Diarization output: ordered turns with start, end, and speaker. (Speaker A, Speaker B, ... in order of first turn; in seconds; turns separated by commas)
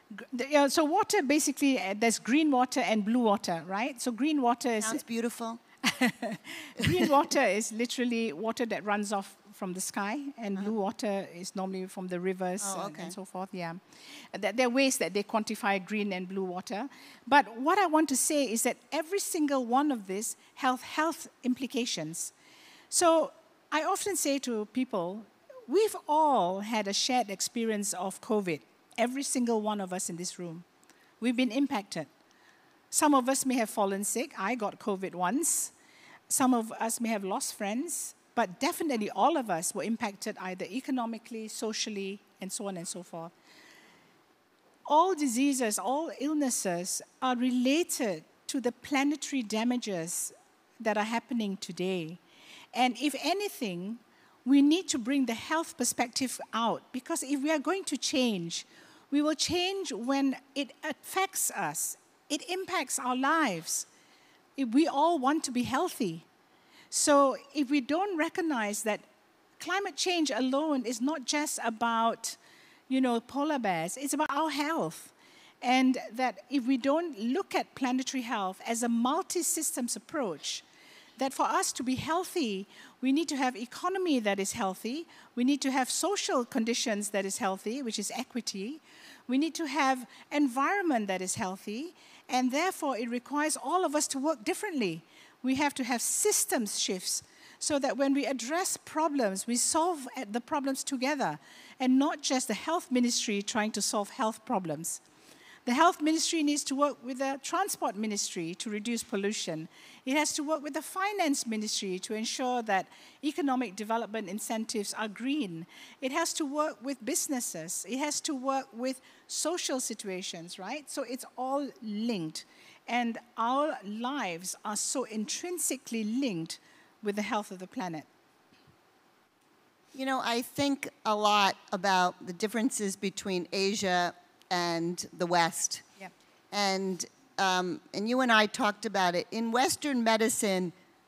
Speaker A: 0.1-5.0, Speaker B: 4.8-5.6, Speaker A: 5.8-13.8, Speaker B: 6.8-7.1, Speaker B: 12.6-13.1, Speaker A: 14.3-22.3, Speaker A: 22.9-30.7, Speaker A: 31.2-32.1, Speaker A: 32.9-35.7, Speaker A: 36.3-43.3, Speaker A: 44.9-52.2, Speaker A: 52.7-63.9, Speaker A: 64.6-66.2, Speaker A: 66.9-69.1, Speaker A: 69.6-72.4, Speaker A: 72.9-80.6, Speaker A: 81.2-105.0, Speaker A: 105.7-128.1, Speaker B: 129.9-135.9, Speaker B: 136.5-140.7